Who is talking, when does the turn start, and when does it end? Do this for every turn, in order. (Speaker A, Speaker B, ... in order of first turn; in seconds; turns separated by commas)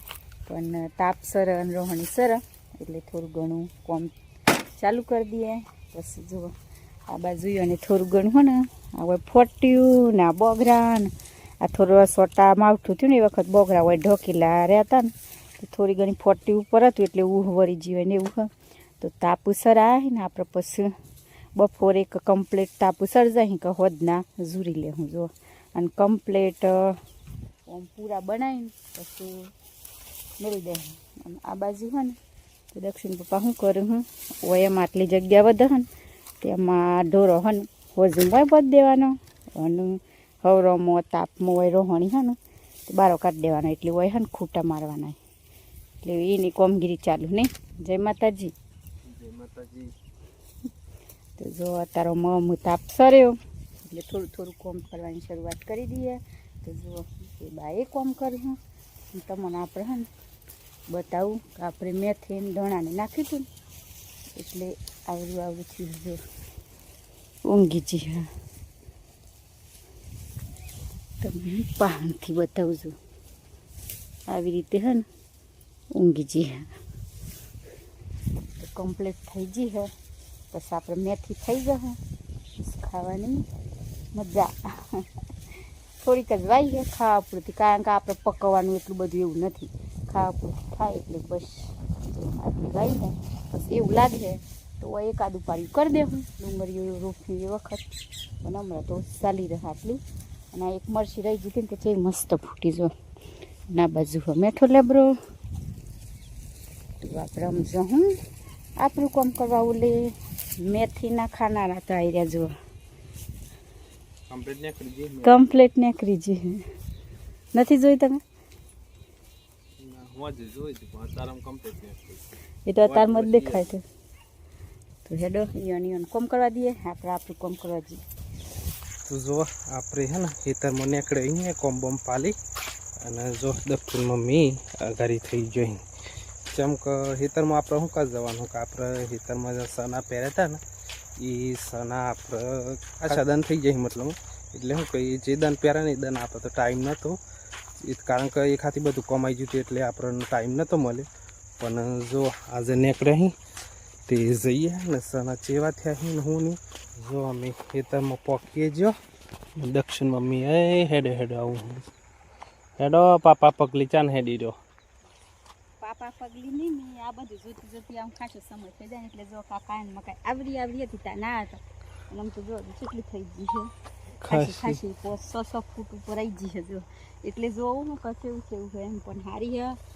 Speaker A: 0.5-4.1, Speaker A: 4.8-6.5, Speaker A: 7.1-18.5, Speaker A: 19.0-20.9, Speaker A: 21.6-27.0, Speaker A: 27.7-29.5, Speaker A: 30.4-32.2, Speaker A: 32.7-35.9, Speaker A: 36.4-42.4, Speaker A: 42.9-45.2, Speaker A: 46.0-48.5, Speaker B: 49.1-49.9, Speaker A: 51.4-58.6, Speaker A: 59.1-60.1, Speaker A: 60.9-63.5, Speaker A: 64.3-66.2, Speaker A: 67.5-68.3, Speaker A: 71.2-73.0, Speaker A: 74.3-75.1, Speaker A: 75.9-76.7, Speaker A: 78.6-79.9, Speaker A: 80.5-82.0, Speaker A: 82.6-83.4, Speaker A: 84.1-85.0, Speaker A: 86.0-97.9, Speaker A: 98.4-100.0, Speaker A: 100.5-102.9, Speaker A: 103.7-105.1, Speaker A: 107.0-108.1, Speaker A: 108.8-112.5, Speaker B: 114.3-115.4, Speaker A: 115.2-116.6, Speaker A: 117.5-118.2, Speaker B: 119.8-122.2, Speaker A: 122.7-123.8, Speaker B: 122.8-123.7, Speaker A: 125.1-128.0, Speaker B: 129.1-132.3, Speaker B: 133.0-135.8, Speaker B: 136.5-140.6, Speaker B: 141.2-147.2, Speaker B: 147.8-151.1, Speaker B: 151.6-153.3, Speaker B: 154.1-158.9, Speaker B: 159.6-161.8, Speaker B: 162.8-164.6, Speaker A: 165.8-173.7, Speaker B: 174.2-174.8, Speaker A: 174.3-179.8